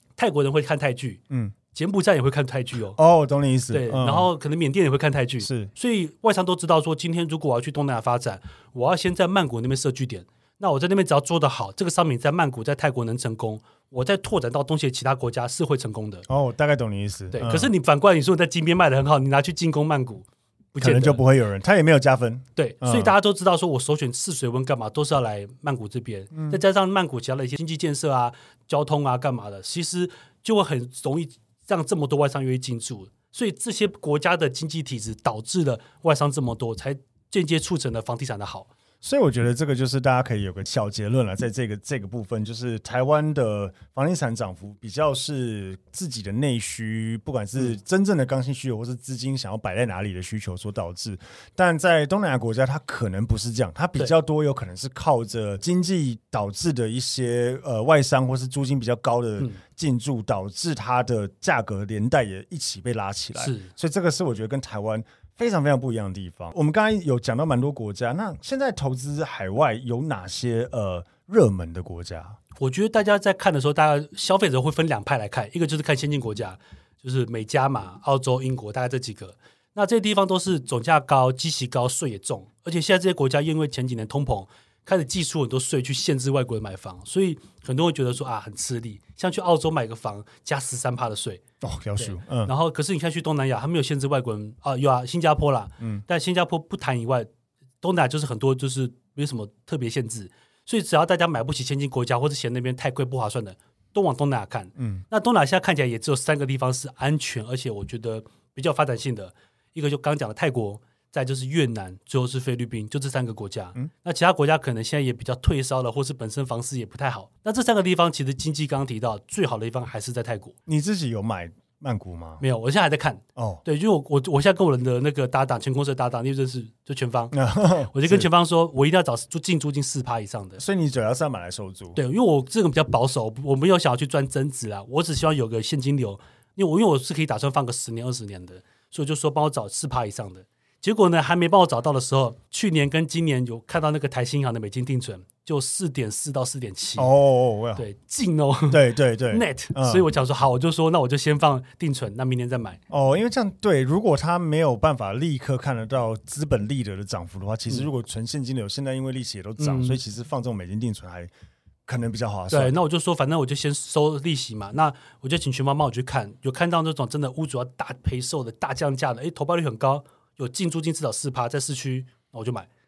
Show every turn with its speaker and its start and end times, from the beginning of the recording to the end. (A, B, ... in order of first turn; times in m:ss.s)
0:00.2-0:03.0 A
0:02.9-0:04.3 B
0:03.7-0:16.2 A
0:05.4-0:05.7 B
0:16.3-0:17.7 B
0:17.3-0:21.2 A
0:20.8-0:23.1 B
0:22.6-0:38.7 A
0:26.3-0:26.6 B
0:39.0-1:12.4 B
1:03.4-1:03.7 A
1:12.6-1:31.4 A
1:31.6-1:32.5 B
1:32.0-1:37.3 A
1:37.8-2:00.5 A
1:44.8-1:45.0 B
2:00.7-2:02.4 B
2:02.4-2:07.3 A
2:03.4-2:03.6 B
2:07.3-2:08.3 B
2:07.9-2:10.6 A
2:10.6-2:12.0 B
2:12.0-2:27.1 A
2:27.0-2:27.8 B
2:27.8-2:32.8 A
2:28.7-2:30.0 B
2:32.9-2:41.3 B
2:39.6-2:40.0 A
2:41.9-2:42.7 B
2:42.5-2:52.7 A